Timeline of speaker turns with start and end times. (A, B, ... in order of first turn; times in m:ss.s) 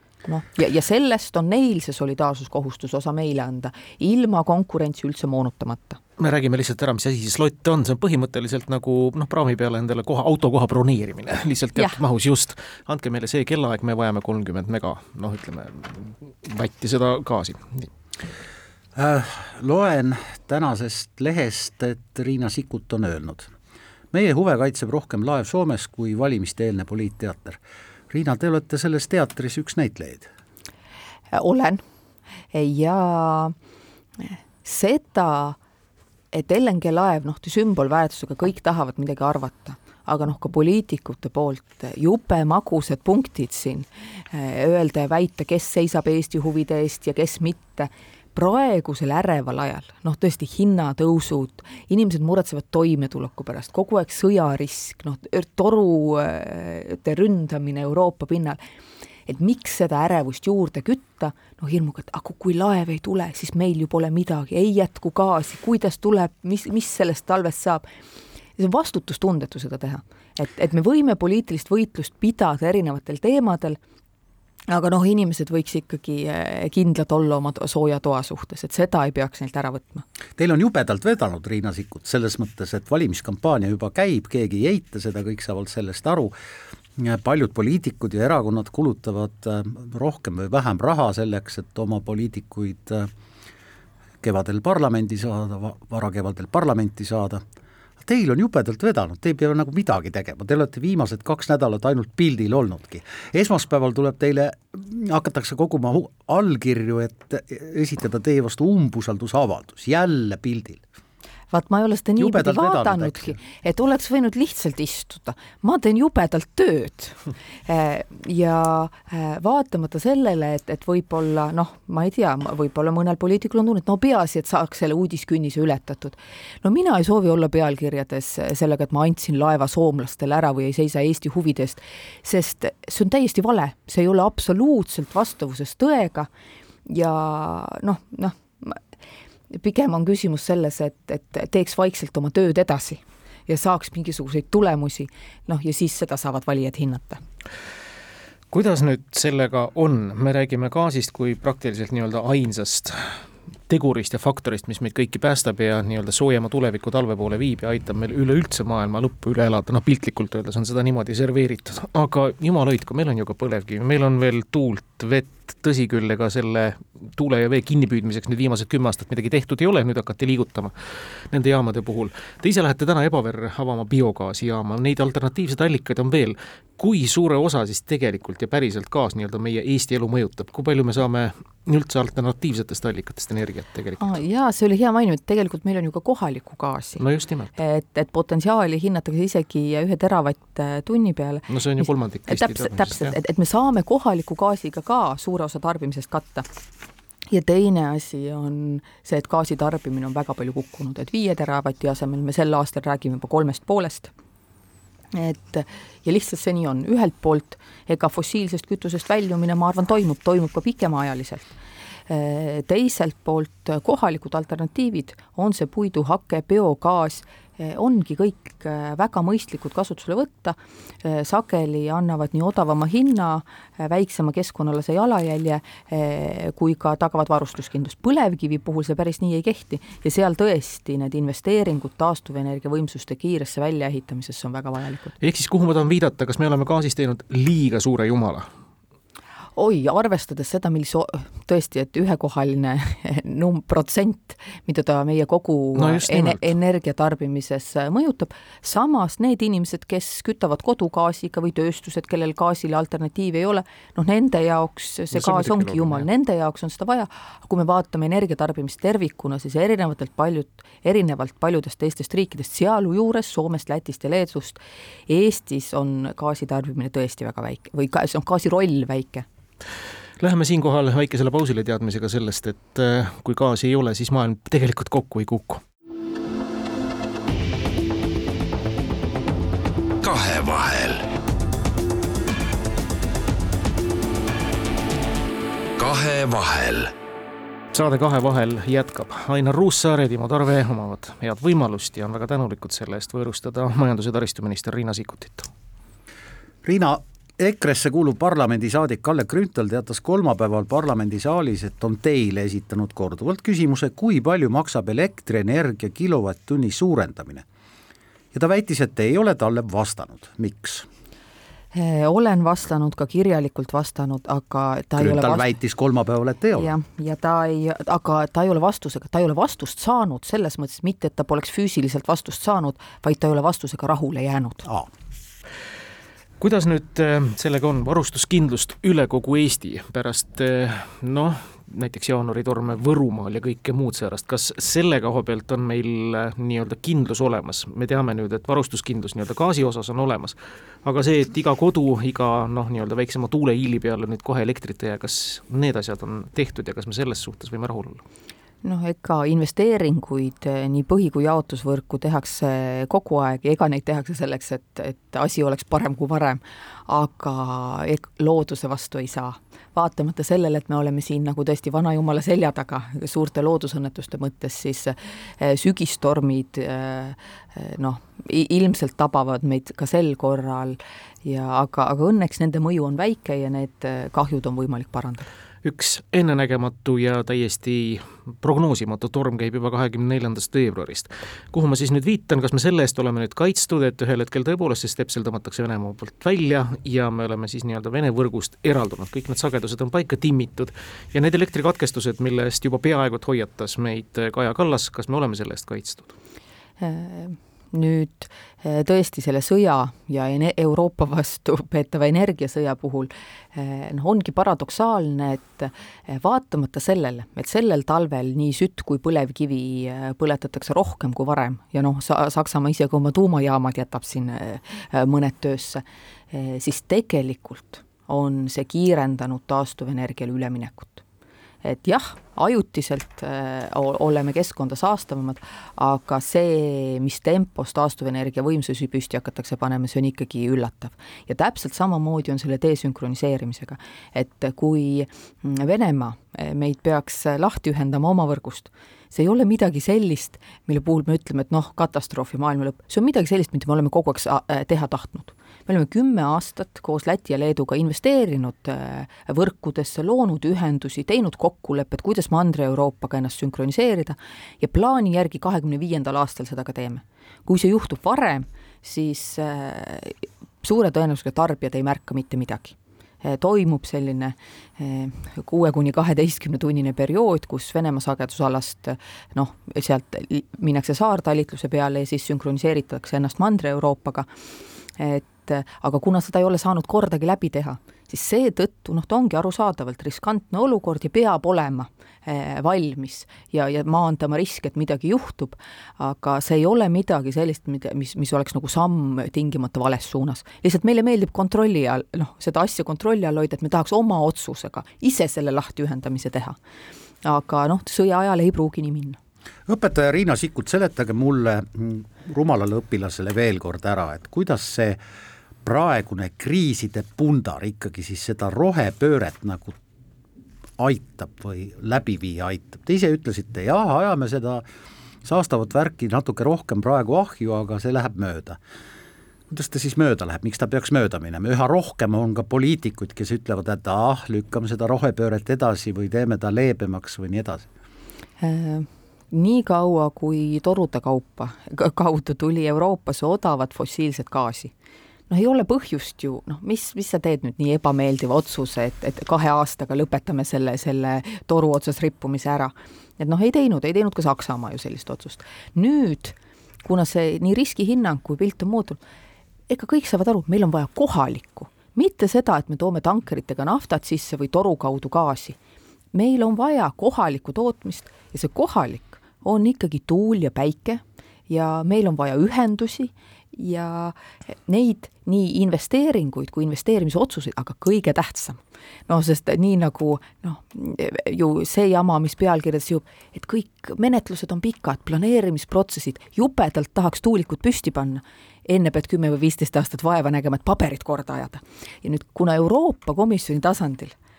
0:00.2-0:06.0 A
0:06.2-0:17.9 B
0:18.9-0:23.5 C
0:24.1-0:30.3 C
0:31.3-0:31.8 A
0:32.5-0:33.5 A
0:34.2-0:35.6 A
0:36.3-0:58.6 A
0:59.3-1:07.8 A
1:08.6-1:13.8 A
1:14.7-1:20.0 A
1:20.4-1:26.3 C
1:27.0-1:33.1 C
1:34.2-1:37.4 C
1:38.0-1:50.8 C
1:51.5-2:16.3 A
1:52.2-1:53.4 C
2:16.8-2:18.8 A
2:19.5-2:27.2 A
2:28.5-3:04.1 B
3:04.0-3:07.0 A
3:07.0-3:07.5 B
3:07.6-3:16.5 A
3:11.5-3:13.2 B
3:17.3-3:24.1 A
3:25.1-3:31.5 A
3:32.1-3:55.2 A
3:55.2-3:58.5 B
3:59.5-4:29.2 A
4:05.8-4:06.5 B
4:15.1-4:16.1 B
4:30.2-4:35.6 B
4:40.0-4:41.0 D
4:45.8-4:46.9 D
4:47.7-4:55.5 B
4:56.6-5:07.4 C
5:08.3-5:10.9 C
5:11.7-5:15.5 A
5:15.0-5:16.7 C
5:16.6-5:24.6 A
5:26.4-5:48.0 B
5:48.6-6:15.3 A
6:15.6-6:36.1 B
6:36.8-7:01.0 A
7:01.6-7:54.3 A
7:55.0-8:16.6 A
8:17.2-8:19.2 A
8:19.7-8:25.0 C
8:25.6-8:29.8 C
8:30.8-8:34.6 C
8:35.2-8:38.6 C
8:39.5-8:47.6 C
8:48.4-8:54.7 A
8:55.3-9:09.0 A
9:09.7-9:15.6 A
9:16.1-9:44.1 A